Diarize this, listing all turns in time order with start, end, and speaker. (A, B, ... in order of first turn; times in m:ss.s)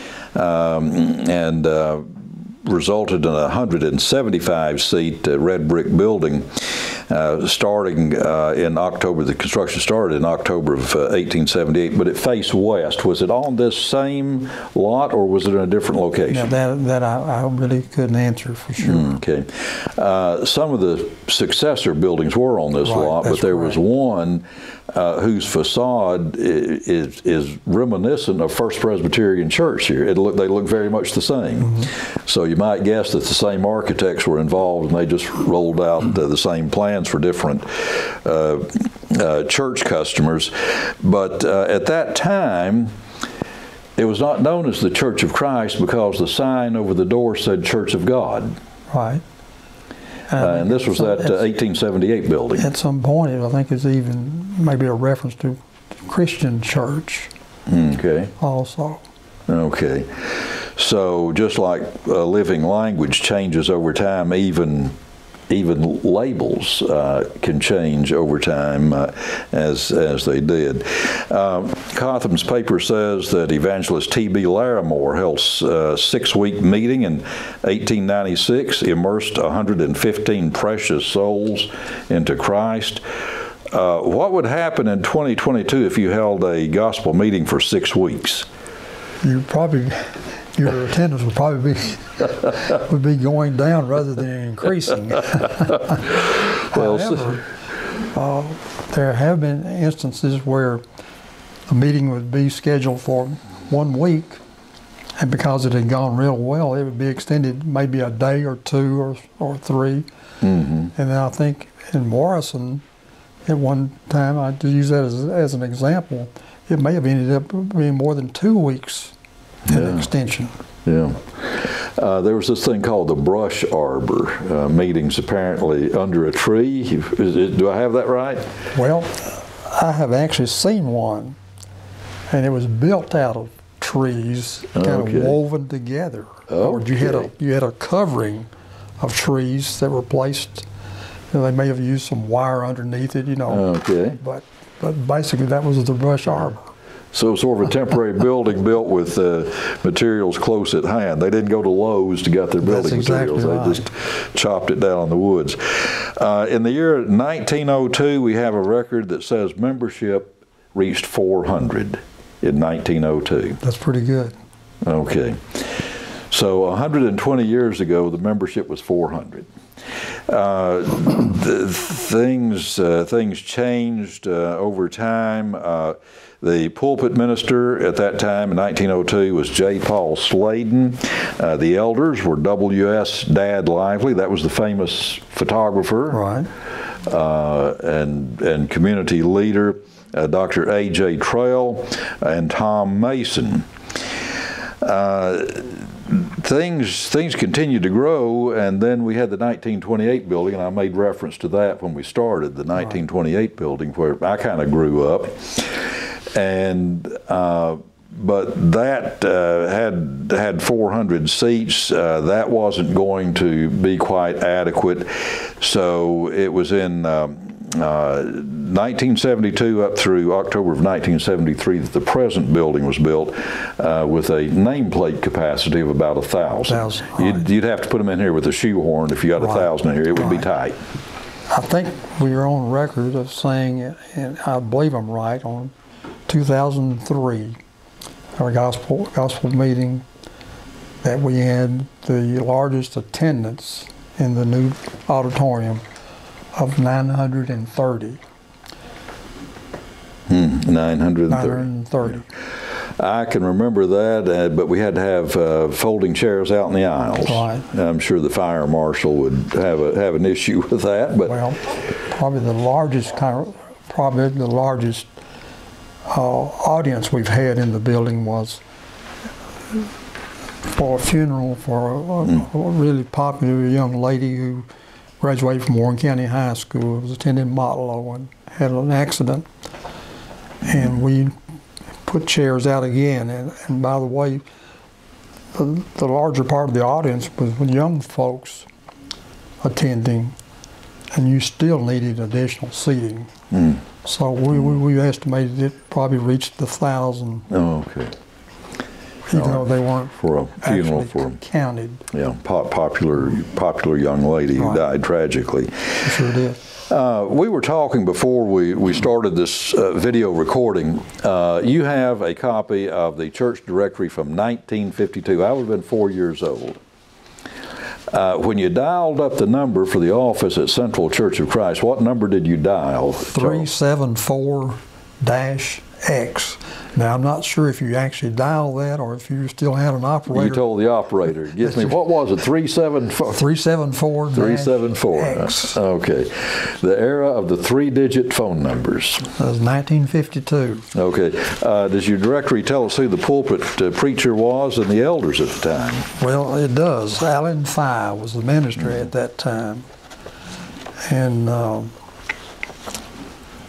0:00.3-0:16.5 A
0:16.3-0:19.2 B
0:18.8-0:42.9 A
0:22.8-0:23.8 B
0:31.6-0:31.9 B
0:44.0-0:48.6 A
0:48.9-0:49.2 B
0:50.3-0:51.5 B
0:50.3-0:52.7 A
0:52.6-0:57.3 B
0:57.7-0:58.3 A
0:58.4-0:59.0 B
0:59.5-1:05.0 A
1:05.5-1:23.0 A
1:23.7-1:28.5 A
1:29.2-1:36.1 B
1:36.7-1:37.4 B
1:36.7-1:37.4 A
1:38.1-1:40.8 B
1:41.7-1:44.4 B
1:45.2-1:50.1 B
1:50.4-1:50.9 A
1:51.0-1:52.8 B
1:53.5-1:59.1 B
1:59.7-2:00.1 A
1:59.7-2:00.5 B
2:00.8-2:08.5 A
2:08.8-2:11.4 B
2:12.3-2:20.7 B
2:14.8-2:15.4 A
2:16.5-2:17.3 A
2:21.3-2:23.6 B
2:23.5-2:24.2 A
2:24.2-2:26.6 B
2:27.1-2:43.6 A
2:32.6-2:33.9 B
2:43.6-2:44.4 B
2:44.8-2:49.5 A
2:50.3-3:06.3 A
3:06.1-3:06.5 B
3:07.0-3:13.7 A
3:14.8-3:50.8 A
3:46.7-3:47.5 B
3:49.4-3:50.5 B
3:51.5-3:55.7 B
3:56.3-3:57.6 B
3:58.4-4:00.1 B
4:01.0-4:05.8 B
4:06.6-4:08.2 B
4:10.3-4:11.7 A
4:11.3-4:12.2 B
4:12.7-4:21.4 A
4:17.2-4:17.7 B
4:21.3-4:25.1 B
4:26.1-4:28.6 B
4:30.6-4:34.7 B
4:35.2-4:39.5 B
4:40.6-4:41.4 B
4:42.1-4:44.4 B
4:45.5-4:48.7 B
4:49.6-4:50.4 B
4:51.1-4:53.3 B
4:53.5-4:53.8 A
4:54.0-4:57.5 B
4:57.5-4:58.1 A
4:59.3-5:02.0 B
4:59.3-5:01.4 A
5:02.1-5:06.2 A
5:04.6-5:04.8 B
5:06.0-5:06.6 B
5:06.9-5:16.8 A
5:18.1-5:23.7 A
5:23.3-5:30.6 B
5:30.3-5:33.4 A
5:31.6-5:31.9 B
5:33.3-5:35.8 B
5:34.3-5:39.3 A
5:39.4-5:40.9 B
5:40.9-5:46.1 A
5:46.2-5:49.9 B
5:51.0-5:52.0 B